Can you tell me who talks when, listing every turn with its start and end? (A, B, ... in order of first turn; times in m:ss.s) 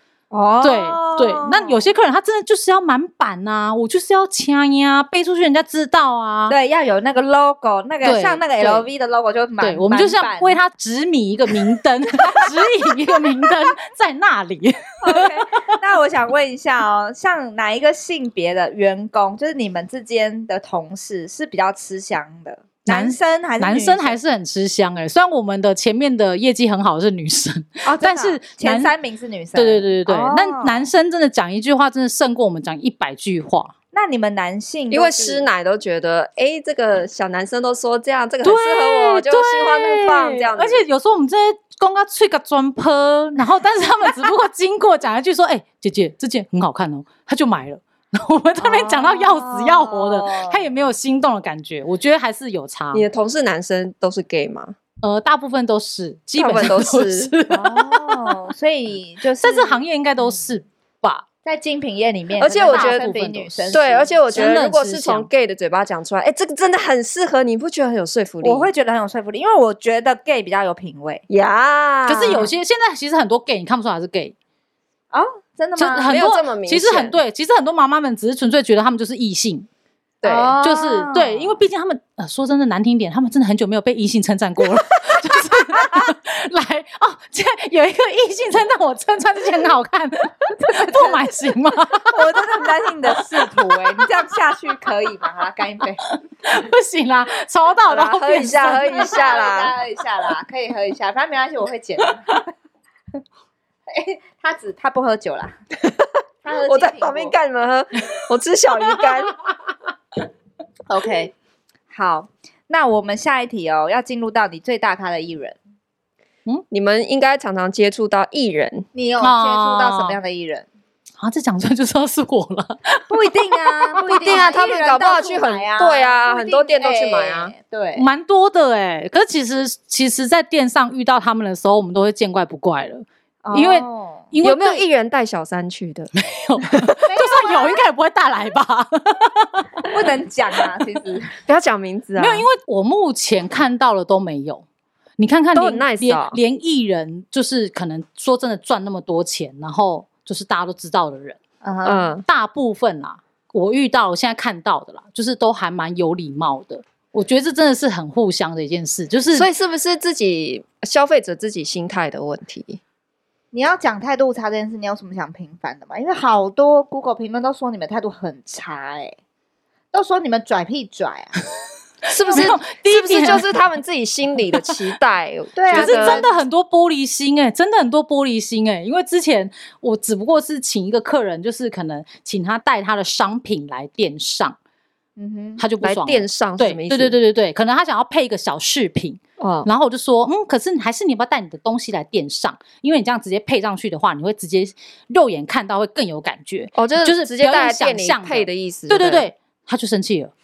0:00.3-0:01.9 A
0:00.6-0:06.6 B
0:06.5-0:10.6 A
0:08.0-0:08.9 B
0:09.6-0:15.4 B
0:11.5-0:13.5 A
0:15.0-0:24.2 A
0:22.9-0:28.9 B
0:27.8-0:30.9 A
0:29.6-0:33.7 B
0:33.9-0:35.4 A
0:34.9-0:40.8 C
0:38.4-0:53.0 B
0:48.6-0:50.7 A
0:52.9-0:54.8 C
0:55.0-0:58.4 B
0:56.4-0:57.3 C
0:57.5-1:00.4 A
0:59.4-1:01.2 B
1:01.4-1:04.6 A
1:02.4-1:03.1 C
1:02.6-1:05.3 B
1:03.7-1:08.7 C
1:08.4-1:11.2 A
1:11.3-1:12.5 C
1:12.1-1:14.3 B
1:15.1-1:16.2 A
1:15.8-1:19.7 B
1:16.1-1:17.2 C
1:20.2-1:20.6 C
1:20.2-1:21.6 A
1:20.6-1:32.3 B
1:30.6-1:31.2 A
1:32.0-1:36.0 A
1:36.4-1:39.1 B
1:37.9-1:39.7 C
1:38.9-1:42.4 A
1:43.9-1:45.6 A
1:46.4-1:47.4 A
1:46.6-1:49.4 C
1:50.9-1:51.3 A
1:51.9-1:55.6 A
1:56.7-1:58.9 C
1:58.9-2:00.7 A
1:59.2-2:00.2 B
2:01.2-2:03.0 B
2:03.1-2:08.1 A
2:04.0-2:07.5 C
2:08.0-2:14.8 B
2:13.4-2:14.3 A
2:14.4-2:16.1 C
2:16.2-2:19.9 B
2:17.1-2:17.8 A
2:19.9-2:21.3 A
2:21.5-2:22.5 C
2:22.2-2:24.6 B
2:25.2-2:31.4 B
2:25.5-2:26.4 C
2:31.6-2:32.1 A
2:31.8-2:32.2 C
2:32.3-2:39.5 B
2:39.3-2:42.8 C
2:43.5-2:49.2 A
2:49.9-2:51.4 A
2:52.1-2:56.3 C
2:52.3-2:53.5 B
2:55.6-2:56.3 A
2:55.7-3:04.6 B
3:05.2-3:05.6 A
3:05.6-3:20.3 B
3:05.8-3:07.2 C
3:09.4-3:09.7 C
3:16.8-3:19.3 C